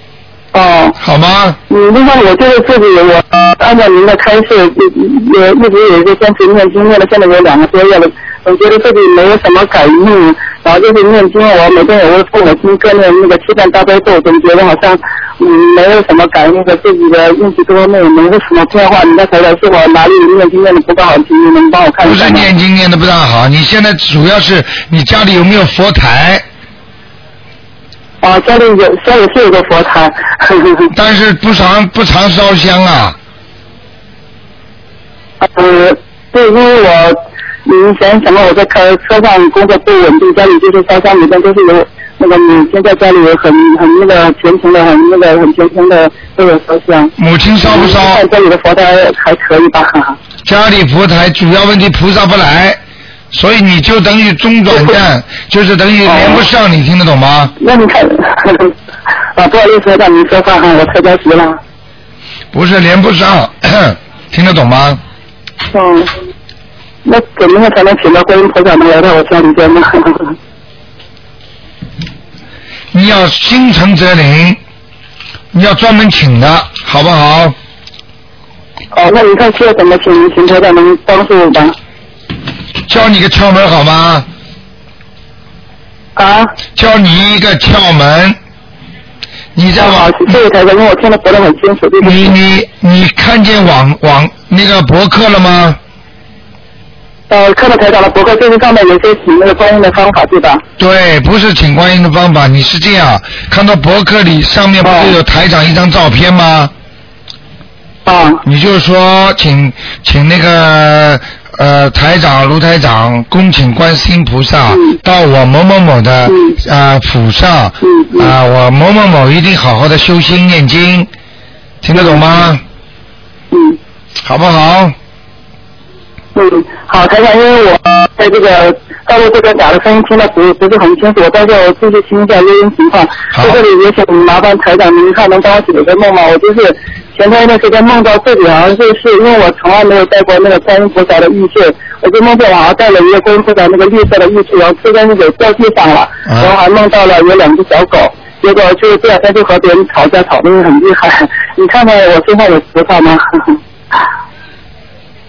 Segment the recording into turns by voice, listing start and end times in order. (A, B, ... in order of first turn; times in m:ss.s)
0:00.5-0:01.0 A
0:01.0-0:01.6 B
0:01.7-0:22.5 A
0:22.0-0:26.4 B
0:28.2-0:30.9 A
0:30.9-0:33.2 B
0:35.4-0:47.1 A
0:47.2-0:48.2 B
0:47.6-0:50.2 A
0:50.4-0:52.8 B
0:53.3-0:57.5 B
0:56.1-0:56.4 A
0:57.6-0:58.7 A
0:59.4-1:01.6 A
1:02.5-1:05.0 B
1:05.7-1:06.1 A
1:07.0-1:10.4 A
1:12.9-1:14.6 B
1:15.5-1:17.6 B
1:18.9-1:21.7 A
1:22.9-1:24.2 B
1:26.2-1:26.5 A
1:26.7-1:28.4 B
1:29.5-1:30.4 B
1:29.8-1:32.3 A
1:32.0-1:35.8 B
1:37.3-1:40.6 A
1:40.8-1:46.7 B
1:44.8-1:45.2 A
1:48.0-1:48.4 A
1:48.4-2:01.1 B
1:54.7-1:55.0 A
1:56.2-1:56.6 A
1:57.8-1:58.3 A
2:01.8-2:02.6 B
2:01.9-2:02.5 A
2:03.5-2:03.8 A
2:04.2-2:04.9 B
2:06.3-2:33.6 A
2:13.3-2:13.6 B
2:26.3-2:26.6 B